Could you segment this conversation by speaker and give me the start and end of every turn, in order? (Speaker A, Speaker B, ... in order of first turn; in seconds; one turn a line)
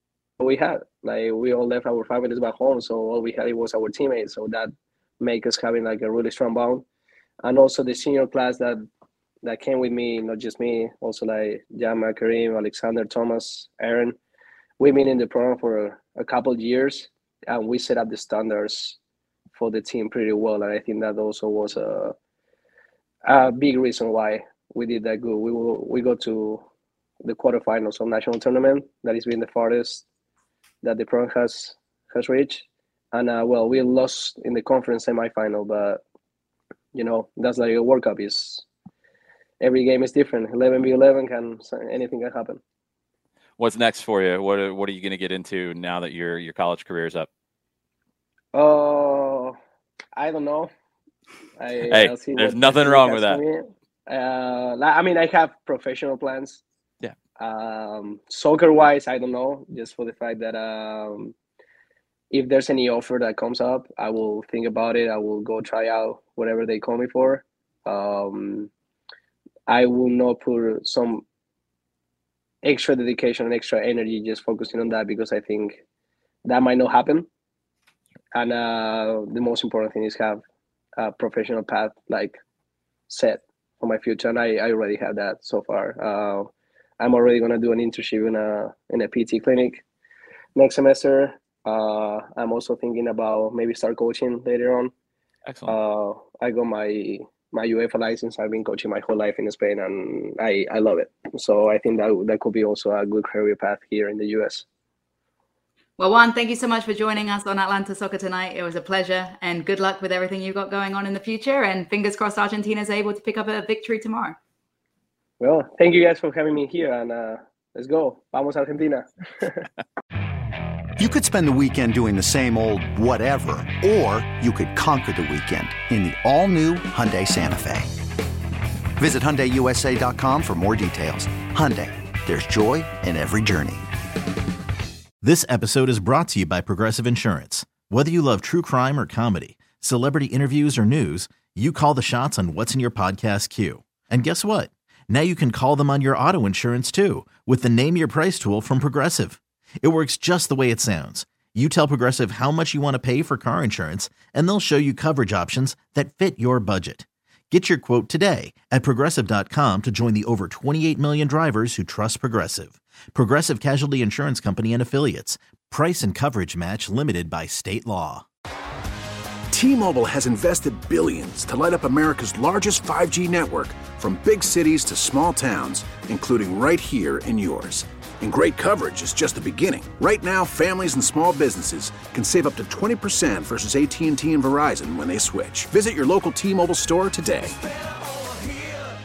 Speaker A: 0.4-6.8
Speaker A: 7.4-8.8
Speaker A: 9.4-14.2
Speaker A: 14.8-19.0
Speaker A: 19.5-22.1
Speaker A: 23.2-26.6
Speaker A: 27.2-30.1
Speaker A: 30.8-36.0
Speaker A: 36.9-38.6
Speaker A: 39.6-42.6
Speaker B: 43.6-47.3
Speaker A: 48.5-49.5
Speaker A: 50.1-50.7
Speaker A: 51.6-56.6
Speaker B: 51.9-53.4
Speaker A: 57.4-61.3
Speaker A: 62.3-68.7
Speaker A: 69.7-71.2
Speaker A: 72.6-75.8
Speaker A: 76.5-77.3
Speaker A: 78.3-80.4
Speaker A: 81.0-82.4
Speaker A: 83.1-86.5
Speaker A: 87.0-89.8
Speaker A: 90.5-94.9
Speaker B: 95.5-95.7
Speaker A: 95.7-104.7
Speaker C: 106.0-114.4
Speaker A: 115.4-119.7
Speaker D: 121.0-127.9
Speaker D: 129.0-133.9
Speaker E: 135.2-168.2
Speaker F: 169.5-187.6